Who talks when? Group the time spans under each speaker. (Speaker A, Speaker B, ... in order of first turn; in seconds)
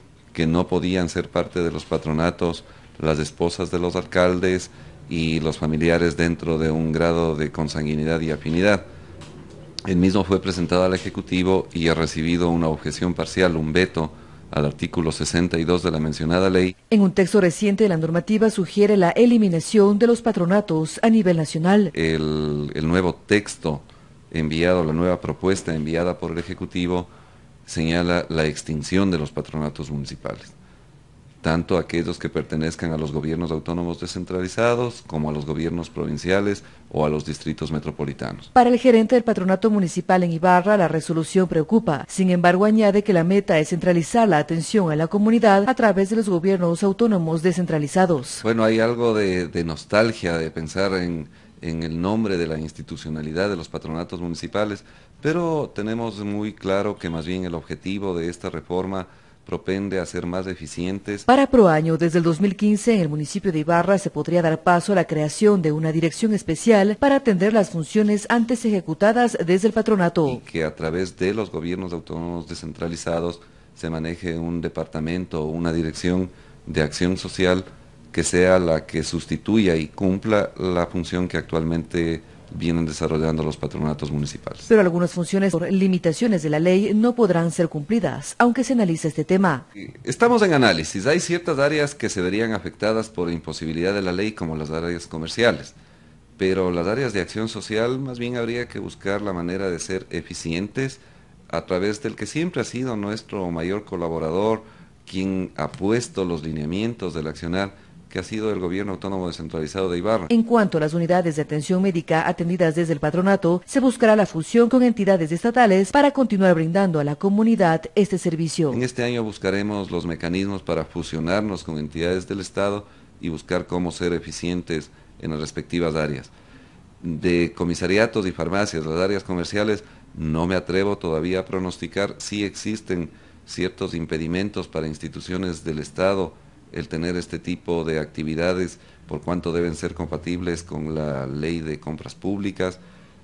Speaker A: 0.3-8.8, 9.9-16.8, 21.9-27.1, 27.7-30.6, 31.4-38.5, 48.4-61.3, 70.3-84.7, 89.8-95.8, 96.4-110.3, 118.7-126.3, 127.0-142.8
Speaker B: 16.9-21.9, 38.5-48.4, 61.3-70.4, 84.7-89.7, 110.3-118.8